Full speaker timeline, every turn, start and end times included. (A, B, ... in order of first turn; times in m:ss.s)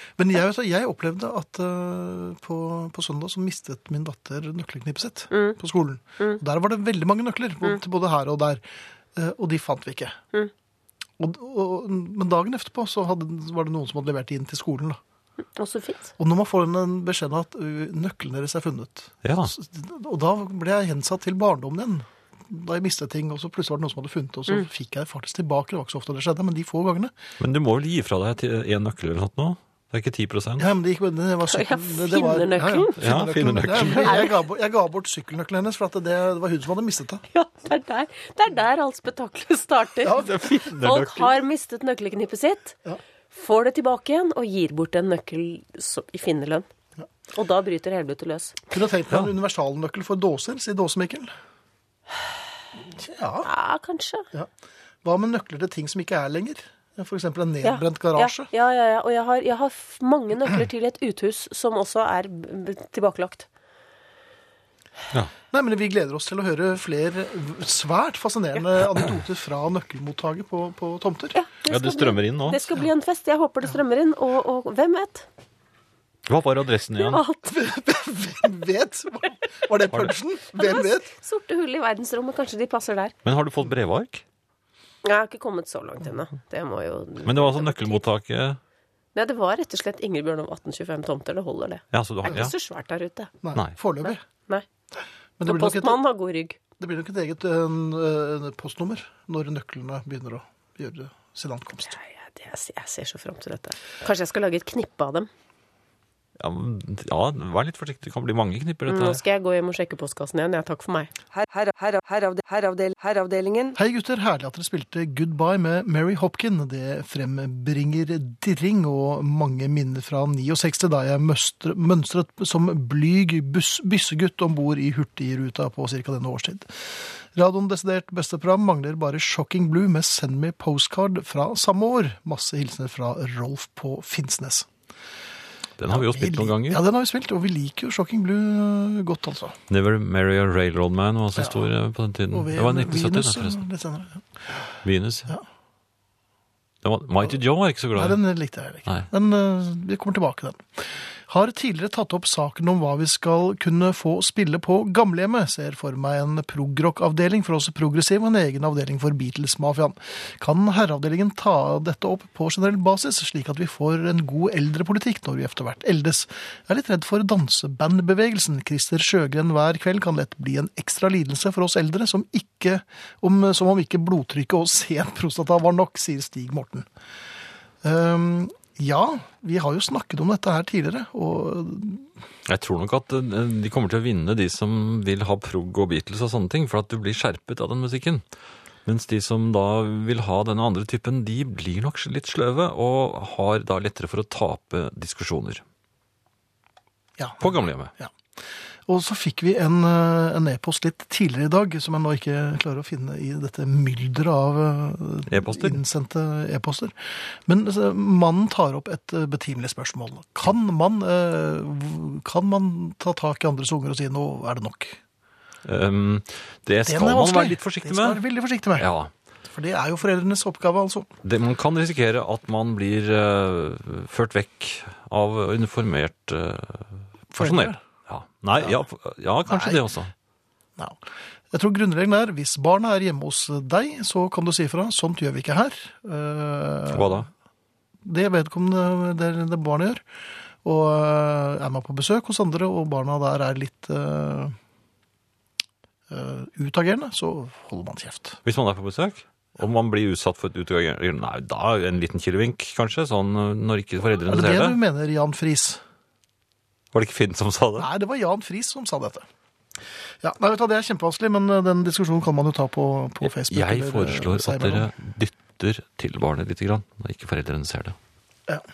0:00.2-0:08.6 A
0:05.3-0:05.6 B
0:09.1-0:10.2 A
0:11.2-0:15.0 A
0:15.6-0:16.1 B
0:16.2-0:27.1 A
0:19.2-0:19.5 C
0:27.4-0:30.7 C
0:30.6-0:37.2 A
0:31.5-0:33.0 B
0:33.0-0:34.3 C
0:33.8-0:34.4 B
0:37.3-0:42.8 B
0:40.1-0:41.4 C
0:43.3-0:46.7 B
0:47.3-0:48.7 B
0:48.7-0:51.3 A
0:52.9-0:53.5 A
0:53.4-0:54.3 B
0:55.0-0:58.5 A
0:57.6-1:03.5 B
1:05.5-1:11.3 A
1:11.3-1:15.3 B
1:11.7-1:12.6 C
1:16.3-1:17.2 C
1:17.0-1:17.5 B
1:17.4-1:21.1 A
1:20.6-1:23.1 B
1:23.2-1:24.2 C
1:25.0-1:28.0 B
1:27.2-1:28.6 C
1:29.1-1:33.3 B
1:31.9-1:32.5 C
1:33.4-1:34.2 A
1:34.0-1:34.6 B
1:35.4-1:36.0 A
1:35.4-1:36.6 B
1:36.8-1:42.0 A
1:41.9-1:45.3 B
1:46.4-1:49.2 C
1:48.9-1:51.1 B
1:51.3-1:53.8 D
1:53.7-2:14.7 A
2:15.8-2:16.8 C
2:15.9-2:19.6 A
2:19.7-2:23.6 C
2:21.4-2:21.7 A
2:22.3-2:24.2 A
2:24.8-2:25.3 C
2:26.8-2:28.2 C
2:27.9-2:56.9 A
2:57.8-3:02.1 A
3:02.5-3:08.2 C
3:08.8-3:15.6 C
3:17.2-3:18.1 A
3:17.4-3:17.9 C
3:18.8-3:35.0 A
3:25.3-3:25.8 C
3:35.6-3:38.2 C
3:36.8-3:38.9 A
3:38.8-3:39.1 C
3:39.4-3:41.1 A
3:41.2-3:50.1 C
3:47.3-3:47.8 A
3:49.4-3:49.8 A
3:50.8-3:57.2 A
3:56.9-3:57.3 C
3:58.0-4:00.0 A
4:00.6-4:04.5 A
4:06.1-4:08.4 A
4:08.4-4:14.8 C
4:14.2-4:15.8 A
4:16.9-4:17.9 C
4:17.8-4:19.2 A
4:20.2-4:24.9 A
4:23.2-4:28.0 C